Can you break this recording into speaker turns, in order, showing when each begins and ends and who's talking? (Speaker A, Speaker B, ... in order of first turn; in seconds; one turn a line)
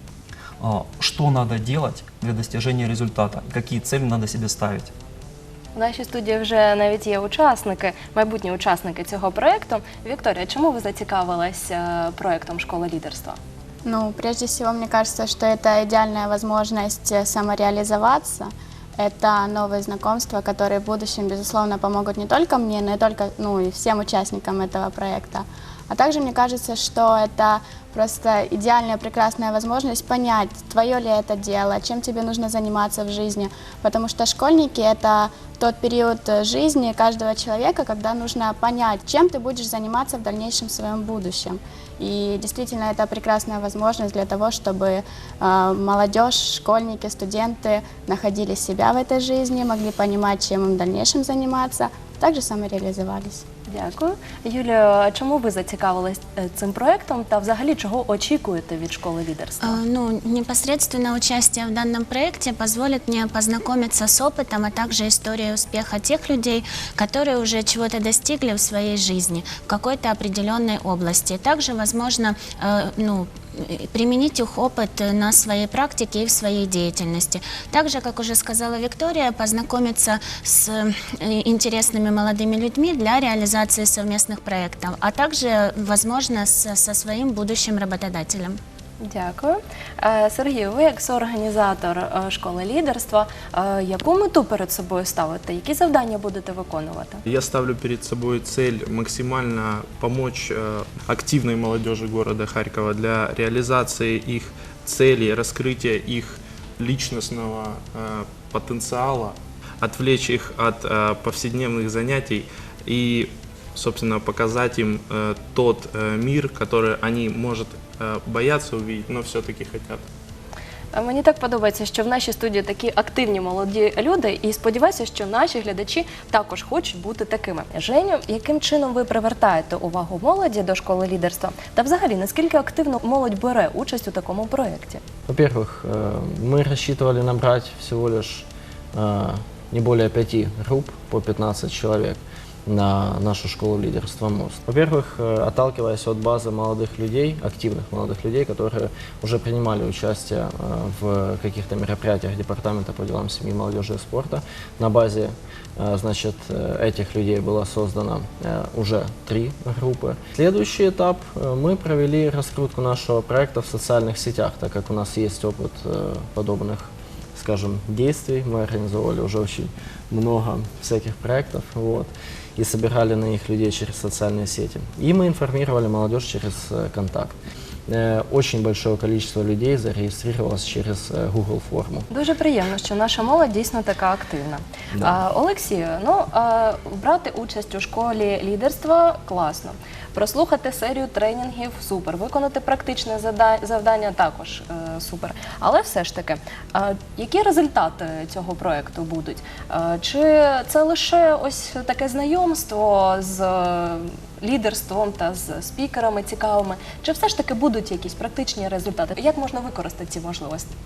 Speaker A: 0.6-4.9
Speaker B: 5.8-13.4
Speaker C: 13.8-53.4
Speaker B: 53.7-59.8
Speaker D: 59.6-88.6
Speaker B: 89.0-97.2
Speaker E: 97.3-120.0
Speaker B: 120.9-135.0
Speaker F: 135.3-177.4
Speaker F: 177.9-182.1
Speaker B: 182.1-210.7